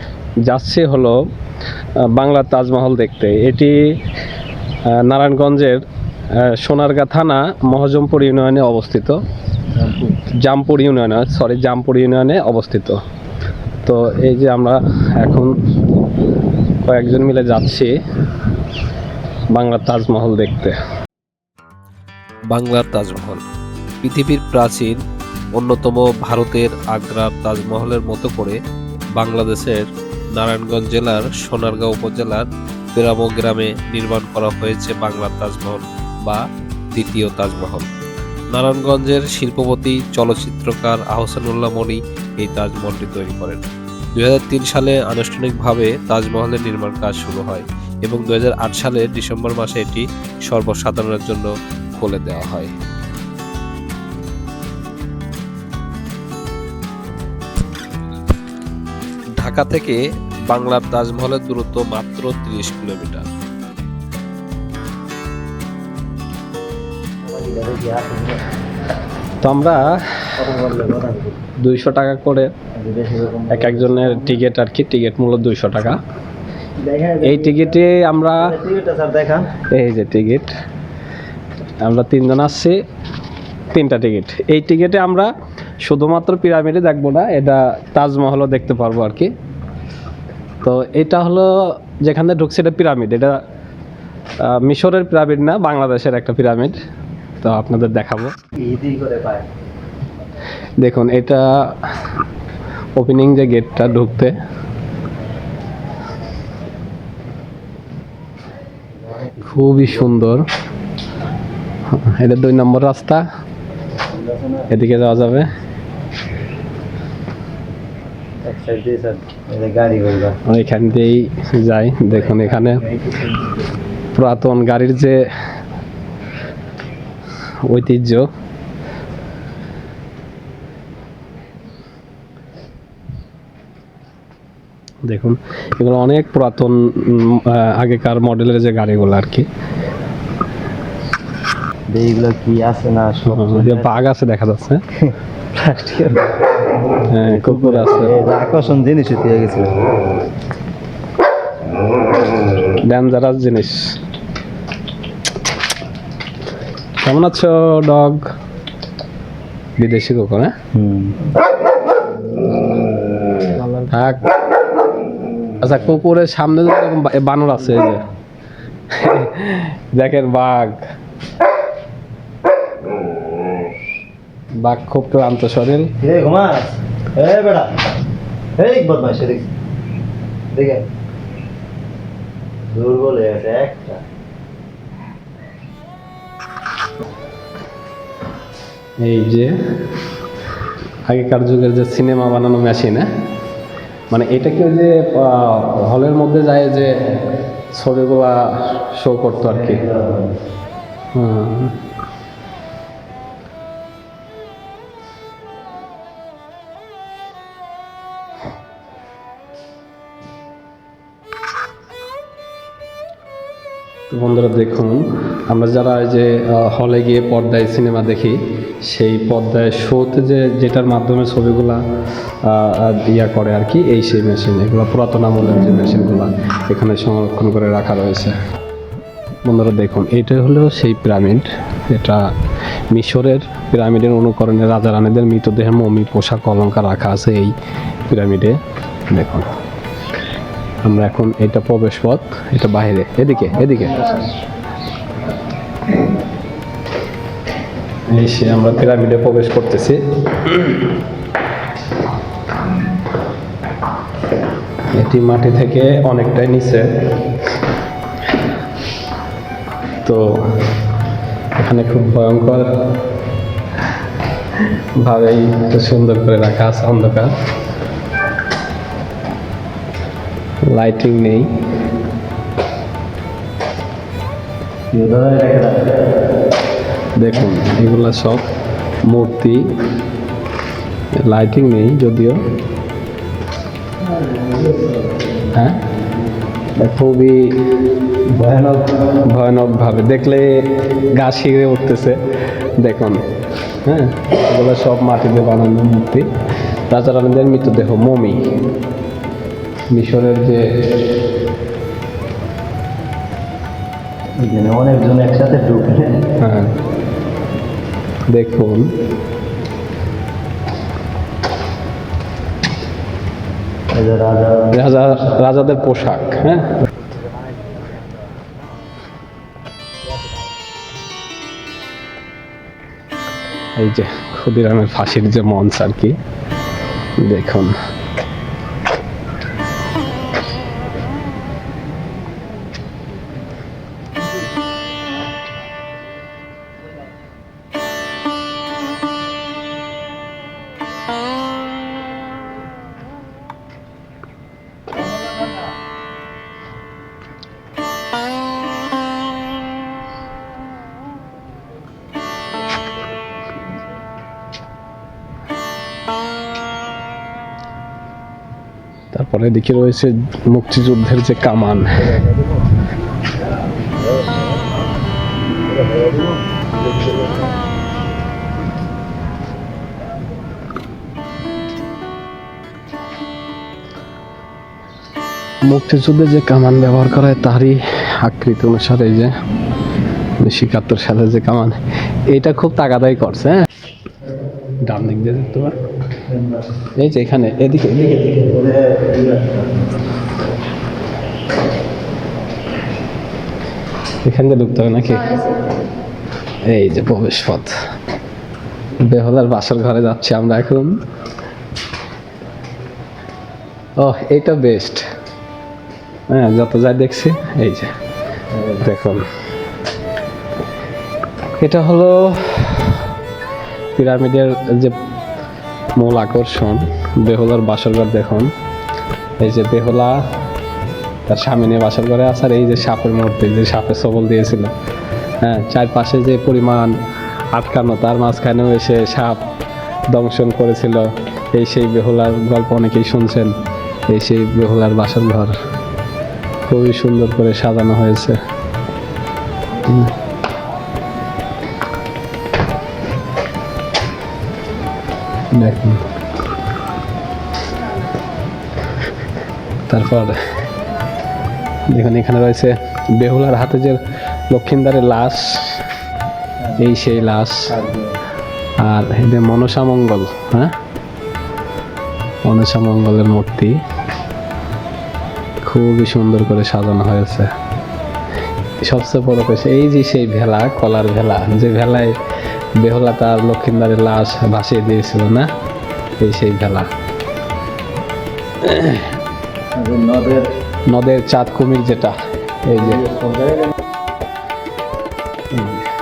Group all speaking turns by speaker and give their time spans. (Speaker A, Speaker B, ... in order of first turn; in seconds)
Speaker A: 0.5-1.2, 2.1-3.9, 4.9-5.8, 6.4-9.2, 10.4-13.0, 13.8-15.5, 16.8-18.0, 19.5-20.8, 69.4-70.2, 71.6-72.5, 73.5-76.0, 77.2-78.5, 79.7-80.5, 81.8-82.8, 83.7-85.3, 85.8-89.3, 90.6-93.4, 94.5-96.8, 97.4-98.3, 100.8-101.7, 103.0-104.3, 109.5-110.5, 111.9-113.2, 114.7-115.5, 120.5-122.8, 124.2-125.3, 127.7-128.3, 135.1-139.5, 143.3-144.8, 147.1-148.2, 152.8-154.0, 157.0-158.2, 159.8-160.5, 163.8-164.3, 165.6-168.0, 168.9-170.8, 174.6-175.9, 189.0-189.6, 191.1-193.1, 194.1-197.1, 197.7-199.8, 201.2-201.8, 214.1-221.8, 222.4-228.3, 229.4-232.2, 232.9-237.5, 238.1-238.6, 239.1-239.5, 240.8-244.2, 248.1-250.8, 254.9-256.9, 260.0-260.4, 261.6-262.7, 265.0-267.3, 270.7-271.5, 277.2-278.5, 279.1-279.7, 281.2-282.4, 285.6-285.8, 286.8-287.9, 289.2-292.2, 292.8-293.2, 293.9-296.3, 296.9-298.4, 299.9-300.7, 306.4-306.8, 308.3-308.9, 314.7-316.8, 323.8-326.2, 327.2-327.8, 359.1-362.0, 375.6-379.3, 380.4-381.8, 382.3-383.7, 384.8-385.8, 387.0-388.4, 394.2-395.4, 396.7-397.7, 399.0-401.0, 404.0-405.0, 406.3-407.9, 408.8-409.2, 411.6-413.1, 413.9-415.0, 416.0-418.5, 419.4-420.2, 421.3-424.7, 425.4-426.9, 427.5-429.4, 430.1-433.5, 434.1-435.5, 436.7-438.4, 445.5-446.0, 449.9-450.3, 451.9-455.8, 456.8-457.7, 458.8-460.7, 462.4-463.8, 465.6-467.5, 468.8-472.1, 472.8-475.5, 476.2-476.9, 478.6-479.2, 480.9-483.0, 485.5-485.9
Speaker B: 9.8-10.2, 67.3-68.4, 70.4-71.4, 72.8-74.4, 76.8-79.5, 98.6-99.5, 109.0-110.2, 114.1-114.7, 118.5-120.4, 122.1-123.6, 141.9-143.9, 145.1-146.5, 147.0-149.8, 160.7-161.2, 176.0-177.7, 178.6-179.5, 180.5-180.8, 182.7-184.0, 199.5-200.3, 274.9-275.9, 284.0-285.3, 288.3-289.0, 304.4-306.2, 313.9-315.2, 317.6-317.9, 362.1-362.5, 364.1-364.4, 365.7-366.5, 386.3-386.6, 388.2-389.7, 456.6-456.9, 457.7-458.2, 479.8-480.5, 482.7-483.7
Speaker C: 22.5-23.4, 24.0-25.0, 25.6-28.6, 29.2-36.4, 37.0-37.9, 38.5-43.6, 44.2-52.7, 59.4-63.3